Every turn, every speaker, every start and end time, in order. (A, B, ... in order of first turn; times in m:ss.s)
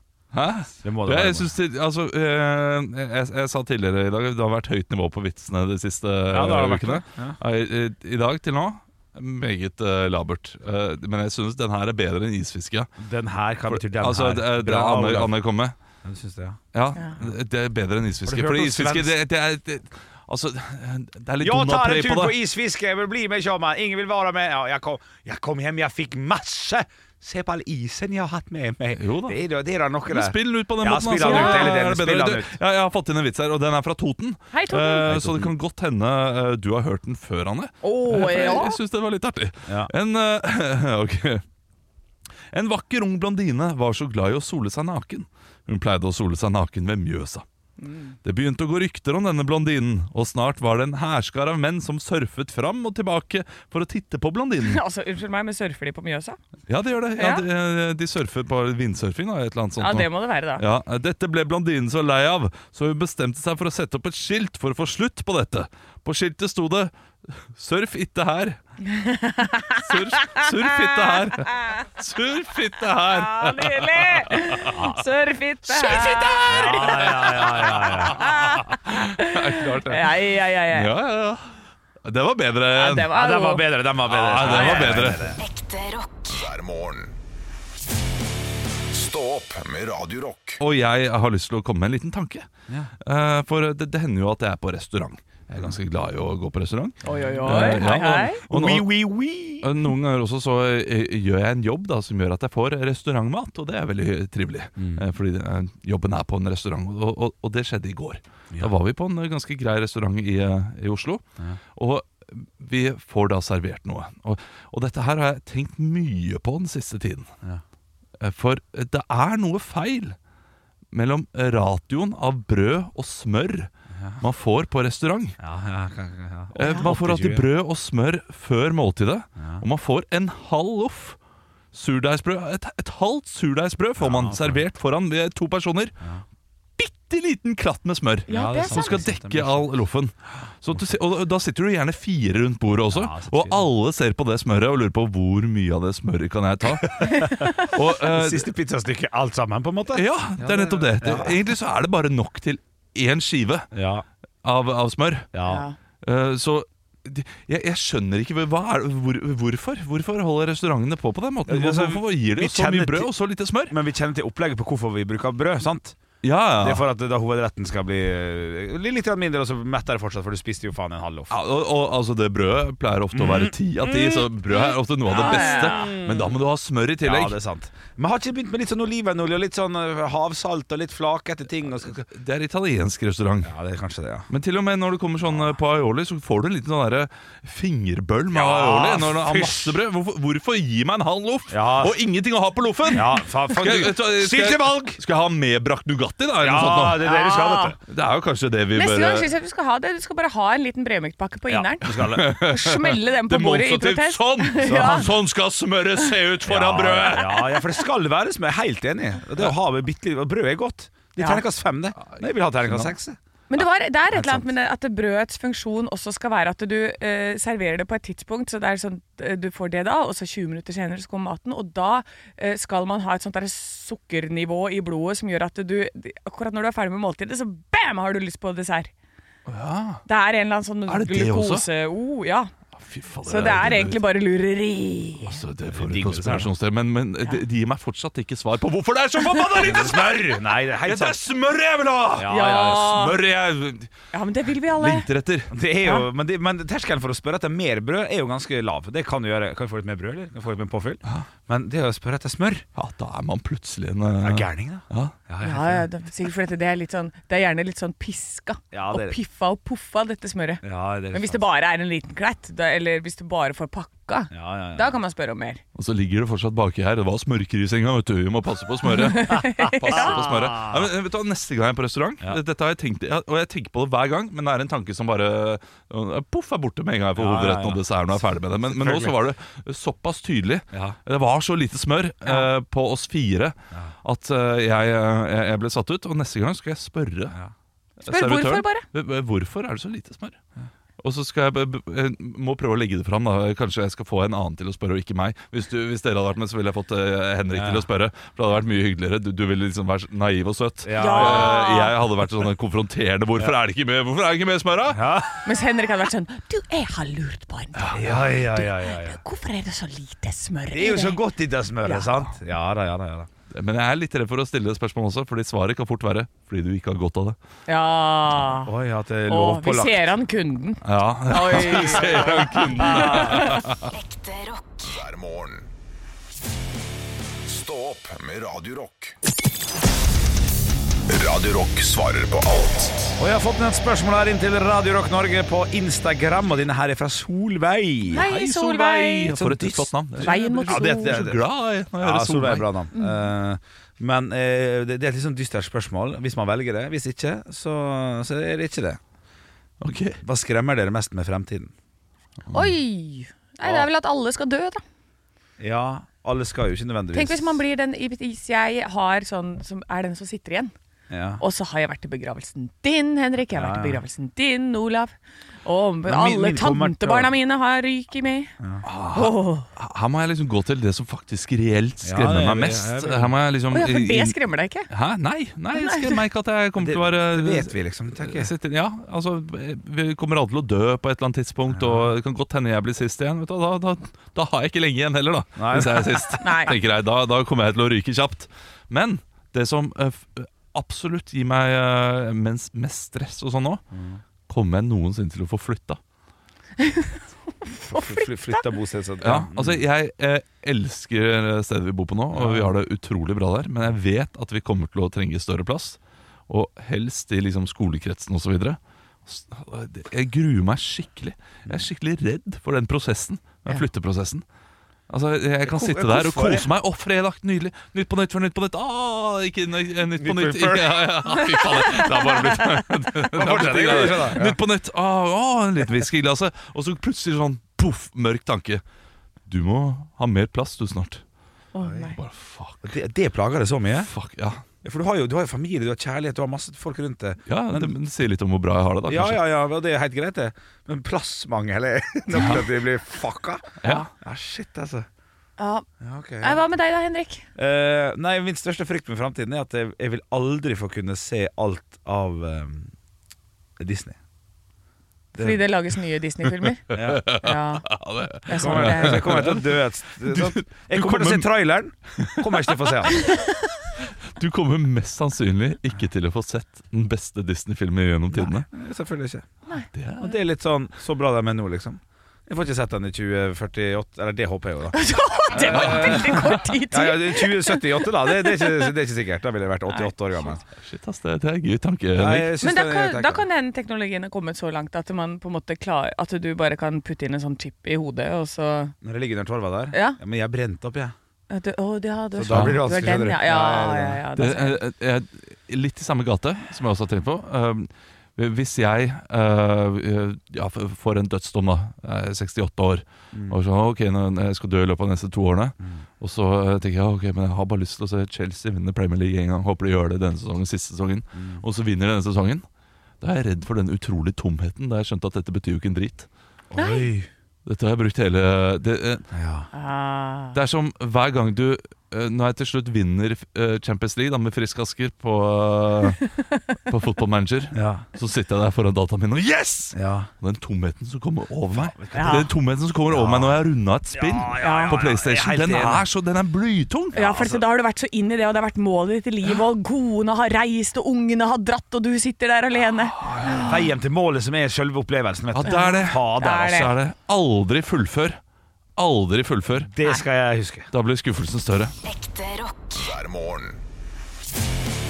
0:00.3-0:12.9 A
0:00.8-0:01.5 B
0:06.3-0:07.4 B
0:13.0-0:15.3 B
0:13.6-0:15.7 A
0:16.0-0:16.6 B
0:16.7-0:22.4 A
0:18.3-0:19.1 B
0:21.4-0:32.5 B
0:29.0-0:29.4 A
0:30.1-0:41.4 A
0:31.2-0:31.9 C
0:34.5-0:35.1 C
0:35.1-0:35.5 B
0:37.8-0:38.8 C
0:39.7-0:39.9 B
0:42.5-0:47.4 A
0:47.8-0:48.2 C
0:48.2-0:54.8 A
0:54.6-0:56.4 C
0:56.7-1:08.6 A
0:57.2-0:57.4 C
0:59.8-1:00.6 C
1:08.9-1:11.9 C
1:09.8-1:14.8 A
1:13.0-1:20.9 C
1:14.7-1:15.0 B
1:15.6-1:20.2 A
1:16.5-1:18.6 B
1:20.7-1:23.1 A
1:22.7-1:23.8 C
1:23.1-1:25.4 B
1:24.1-1:25.3 A
1:24.3-1:25.0 C
1:25.4-1:26.3 D
1:26.2-1:27.2 E
1:28.9-1:30.6 E
1:30.6-1:32.5 A
1:33.0-1:38.9 A
1:37.0-1:37.9 B
1:37.1-1:38.4 C
1:38.5-1:39.7 B
1:39.6-1:51.2 A
1:44.8-1:45.1 B
1:51.7-1:57.3 A
1:58.2-2:00.2 A
2:00.9-2:05.4 A
2:03.9-2:04.2 B
2:05.4-2:07.4 B
2:06.6-2:11.2 A
2:06.6-2:06.9 C
2:09.4-2:09.6 B
2:11.7-2:16.0 A
2:14.0-2:14.6 B
2:16.8-2:28.5 A
2:18.3-2:19.7 B
2:18.3-2:19.1 C
2:22.9-2:23.6 B
2:26.7-2:31.4 B
2:29.9-2:33.7 A
2:33.7-2:34.1 B
2:34.4-2:35.3 A
2:35.3-2:35.6 B
2:35.4-2:35.8 C
2:36.0-2:43.7 A
2:41.5-2:43.1 B
2:43.7-2:46.0 B
2:46.2-2:46.9 A
2:46.6-2:51.4 B
2:51.3-2:57.4 A
2:53.1-2:54.3 B
2:55.1-2:56.0 C
2:55.1-2:56.4 B
2:57.0-3:02.0 B
3:01.8-3:03.5 A
3:03.4-3:04.3 B
3:04.3-3:17.1 A
3:08.3-3:09.7 B
3:11.5-3:12.0 B
3:12.9-3:15.0 B
3:16.4-3:17.8 B
3:17.0-3:17.7 C
3:17.9-3:19.3 A
3:18.7-3:25.1 C
3:21.5-3:22.3 B
3:21.9-3:27.5 A
3:24.6-3:25.1 B
3:26.4-3:33.2 B
3:27.1-3:27.6 C
3:31.2-3:31.4 C
3:32.1-3:32.9 A
3:33.5-3:48.9 C
3:34.1-3:34.5 B
3:49.5-3:50.0 A
3:50.1-3:52.5 C
3:50.9-3:51.6 A
3:52.8-3:54.0 A
3:53.2-3:55.4 C
3:55.2-4:03.9 A
3:55.7-3:56.5 B
3:59.6-4:01.2 B
4:02.2-4:02.9 B
4:02.3-4:03.2 C
4:04.1-4:05.1 C
4:04.7-4:05.5 A
4:05.5-4:12.6 B
4:05.8-4:06.1 C
4:12.7-4:15.2 A
4:14.2-4:15.8 B
4:15.4-4:25.6 C
4:18.7-4:19.2 B
4:20.6-4:21.4 B
4:24.3-4:25.0 B
4:25.7-4:47.4 A
4:28.9-4:30.3 C
4:29.6-4:30.9 B
4:37.2-4:39.2 B
4:40.7-4:41.0 B
4:48.0-4:50.4 A
4:48.0-4:48.9 C
4:51.0-5:05.2 A
4:57.5-4:57.9 B
5:00.8-5:01.6 B
5:01.0-5:02.0 C
5:04.9-5:05.4 B
5:05.4-5:11.2 C
5:07.8-5:08.3 A
5:07.9-5:09.2 B
5:10.7-5:13.3 B
5:11.8-5:12.2 C
5:13.5-5:17.4 A
5:17.7-5:18.7 C
5:18.6-5:20.1 B
5:19.3-5:23.6 C
5:20.8-5:23.9 A
5:22.9-5:23.4 B
5:23.4-5:24.8 D
5:24.8-5:25.7 E
5:27.4-5:29.1 E
5:31.1-5:33.2 E
5:33.2-5:38.3 B
5:38.1-5:39.4 C
5:38.2-5:42.7 A
5:39.3-5:41.4 B
5:40.2-5:41.4 C
5:42.0-5:49.0 B
5:42.9-5:43.3 C
5:49.8-5:50.2 A
5:50.2-5:51.7 B
5:52.4-5:52.7 A
5:52.5-5:54.8 C
5:53.6-5:53.9 B
5:55.6-5:57.6 B
5:57.1-6:00.7 C
6:01.1-6:01.4 B
6:01.4-6:08.5 C
6:03.6-6:04.0 B
6:06.0-6:07.3 B
6:08.8-6:14.4 A
6:09.1-6:09.7 C
6:12.0-6:13.4 B
6:13.7-6:14.9 C
6:14.9-6:33.8 A
6:15.7-6:16.2 C
6:16.8-6:18.5 B
6:21.7-6:22.1 B
6:25.6-6:26.3 B
6:26.4-6:26.8 C
6:33.9-6:34.2 B
6:34.5-6:36.0 A
6:36.8-6:38.7 C
6:37.8-6:39.8 B
6:39.2-6:54.4 A
6:42.3-6:42.7 B
6:55.1-7:08.8 A
6:55.7-6:56.7 B
7:00.2-7:01.4 B
7:01.4-7:02.8 C
7:03.3-7:04.6 B
7:09.4-7:11.2 A
7:11.7-7:12.2 C
7:12.0-7:13.0 A
7:12.8-7:14.1 B
7:13.9-7:14.6 A
7:14.8-7:17.9 B
7:17.5-7:19.4 A
7:19.1-7:25.1 B
7:22.3-7:22.7 A
7:23.8-7:24.1 A
7:25.6-7:25.9 C
7:26.0-7:26.6 B
7:26.4-7:27.4 C
7:27.6-7:32.9 B
7:33.8-7:34.2 B
7:35.3-7:37.9 C
7:36.9-7:37.3 B
7:36.9-7:41.5 A
7:38.4-7:39.5 C
7:38.6-7:43.3 B
7:42.1-7:42.9 A
7:43.1-7:43.7 C
7:44.0-7:48.7 A
7:48.3-7:49.5 B
7:49.9-7:50.3 A
7:50.2-7:55.0 B
7:54.9-7:58.9 C
7:55.5-8:00.6 B
7:55.6-7:56.6 A
7:59.9-8:00.5 C
8:00.7-8:02.5 A
8:02.2-8:03.4 B
8:02.6-8:09.0 C
8:09.0-8:11.1 B
8:09.9-8:10.2 C
8:11.5-8:14.8 C
8:12.3-8:14.2 B
8:12.5-8:12.8 A
8:14.4-8:32.7 A
8:23.3-8:23.6 B
8:31.4-8:31.6 B
8:33.2-8:36.3 A
8:36.7-8:37.3 B
8:36.8-8:37.0 C
8:37.7-8:39.3 A
8:39.3-8:39.7 B
8:39.7-8:40.6 C
8:40.5-8:46.2 A
8:46.9-8:57.4 A
8:47.7-8:48.0 B
8:49.9-8:50.3 B
8:51.7-8:52.5 B
8:52.1-8:52.5 C
8:53.1-8:53.6 B
8:54.1-8:56.0 B
8:54.6-8:55.0 C
8:57.1-9:03.8 C
8:57.3-8:57.6 B
9:03.2-9:03.8 A
9:03.6-9:06.9 B
9:05.5-9:08.4 A
9:05.7-9:06.9 C
9:09.0-9:09.9 A
9:09.9-9:10.9 B
9:10.9-9:11.9 A
9:12.0-9:12.9 D
9:12.9-9:13.8 E